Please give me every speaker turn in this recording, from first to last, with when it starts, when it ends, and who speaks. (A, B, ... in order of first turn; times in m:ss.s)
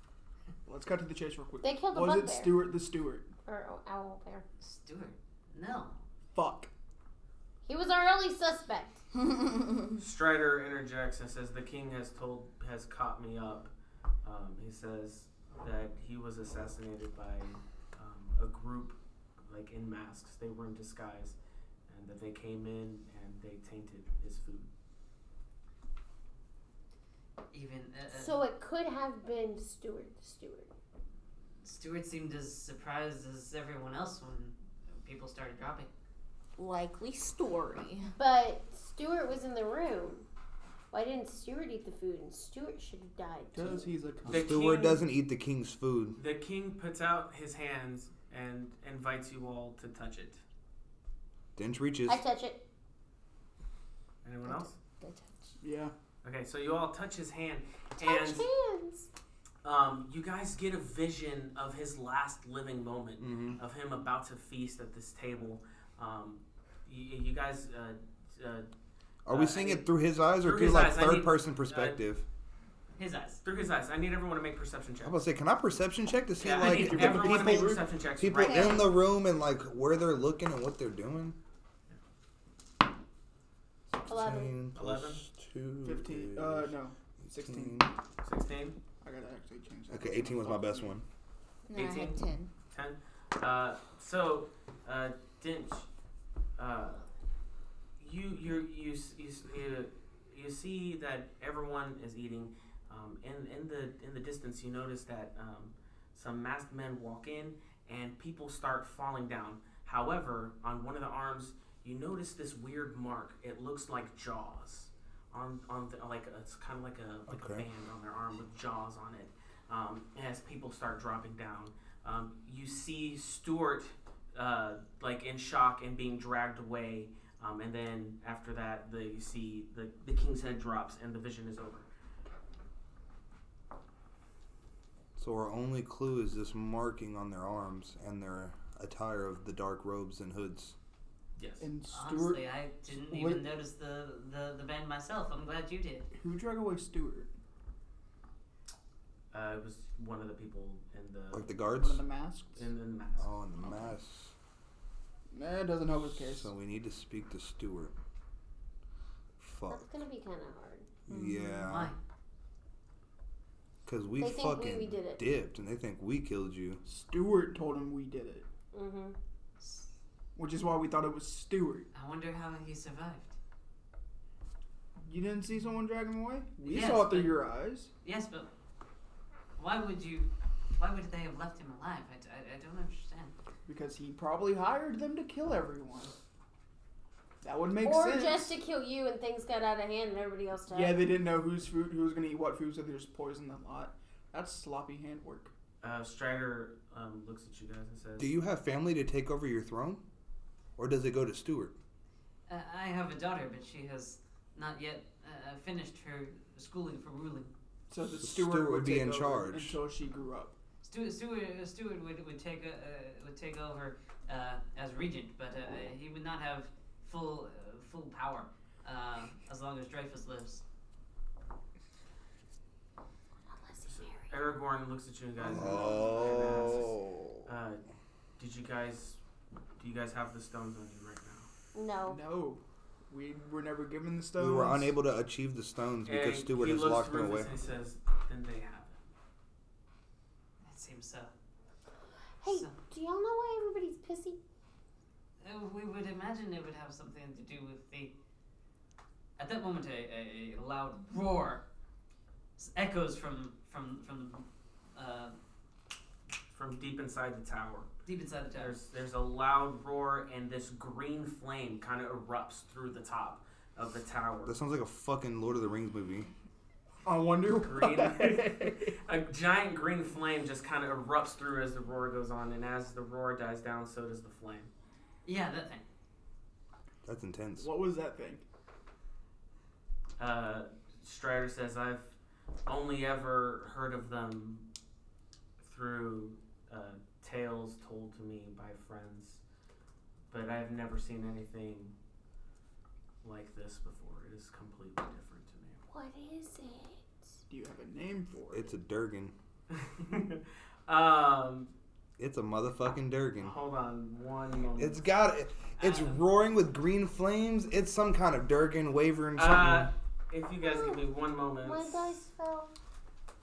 0:00.7-0:03.3 A
0:01.6-0:02.6 B
0:03.4-0:04.4 B
0:04.6-0:06.0 C
0:06.3-0:06.7 A
0:07.7-0:09.0 B
0:10.0-0:13.7 D
0:14.2-0:21.4 D
0:21.9-0:24.7 D
0:27.5-0:28.4 C
0:28.1-0:30.7 B
0:31.6-0:35.9 C
0:36.6-0:38.1 E
0:38.2-0:40.2 B
0:40.9-0:43.9 B
0:43.5-0:44.5 A
0:44.3-0:45.0 D
0:44.3-0:46.2 F
0:46.2-0:50.4 D
0:51.6-0:52.2 F
0:52.1-0:52.6 B
0:54.2-0:54.7 D
0:54.5-0:55.5 E
0:55.6-0:55.9 A
0:56.2-0:58.4 D
0:58.0-0:59.1 B
0:59.6-1:08.7 D
1:03.2-1:03.6 F
1:09.2-1:12.2 F
1:09.3-1:09.9 D
1:10.4-1:12.0 D
1:13.0-1:13.4 C
1:13.4-1:15.2 D
1:15.0-1:21.4 F
1:16.4-1:18.8 D
1:16.6-1:17.8 A
1:18.5-1:18.8 E
1:23.9-1:27.9 F
1:24.1-1:24.5 B
1:24.8-1:25.2 D
1:25.8-1:27.9 A
1:28.2-1:28.8 D
1:29.0-1:31.0 A
1:29.9-1:31.0 F
1:31.7-1:32.5 E
1:31.7-1:32.2 D
1:32.7-1:35.9 D
1:36.6-1:37.1 D
1:38.0-2:11.9 D
1:57.3-1:57.7 F
2:15.2-2:20.8 F
2:21.4-2:21.7 D
2:21.6-2:23.4 A
2:21.9-2:26.1 C
2:26.1-2:27.3 A
2:29.3-2:31.5 D
2:31.3-2:32.0 F
2:31.7-2:32.7 A
2:32.6-2:33.8 D
2:33.2-2:34.3 F
2:35.3-2:36.5 A
2:36.1-2:37.9 F
2:39.4-2:39.8 F
2:39.7-2:40.9 B
2:41.1-2:41.9 F
2:41.1-2:41.7 E
2:41.6-2:42.0 C
2:43.8-2:46.8 F
2:44.2-2:45.2 B
2:46.8-2:48.5 A
2:48.7-2:49.2 B
2:50.4-2:51.9 A
2:51.9-2:53.4 C
2:55.0-2:57.9 A
2:56.6-2:57.5 C
2:58.0-2:58.5 C
2:59.6-3:03.3 C
3:03.7-3:06.1 A
3:07.4-3:08.6 A
3:07.8-3:11.1 B
3:10.7-3:15.5 A
3:15.8-3:18.3 D
3:18.2-3:20.0 F
3:20.8-3:21.7 F
3:22.5-3:27.5 C
3:27.9-3:30.5 A
3:28.2-3:29.8 F
3:30.8-3:40.6 C
3:43.5-3:44.4 B
3:43.9-3:47.8 D
3:45.4-3:47.4 F
3:45.6-3:46.0 A
3:48.4-3:49.2 D
3:49.8-3:51.5 D
3:51.7-3:52.2 B
3:52.0-3:55.0 A
3:54.4-3:57.5 F
3:56.1-3:59.0 D
4:00.6-4:01.3 C
4:02.4-4:04.4 B
4:02.5-4:02.8 C
4:05.4-4:08.1 C
4:09.4-4:11.6 C
4:12.6-4:15.4 C
4:16.5-4:17.9 D
4:18.0-4:18.8 C
4:18.6-4:24.6 D
4:24.4-4:26.3 F
4:27.0-4:29.0 A
4:27.6-4:34.7 D
4:35.2-4:35.8 C
4:37.0-4:37.7 F
4:37.6-4:38.4 A
4:40.2-4:44.7 D
4:45.6-4:49.4 D
4:50.3-4:51.9 D
4:53.2-4:55.8 D
4:55.9-4:57.3 B
4:57.5-4:58.7 A
4:58.5-4:59.3 F
4:59.7-5:01.7 D
5:02.2-5:03.6 F
5:03.4-5:05.0 D
5:04.8-5:09.9 F
5:05.8-5:06.2 C
5:09.4-5:12.2 D
5:10.6-5:11.0 B
5:11.6-5:12.7 B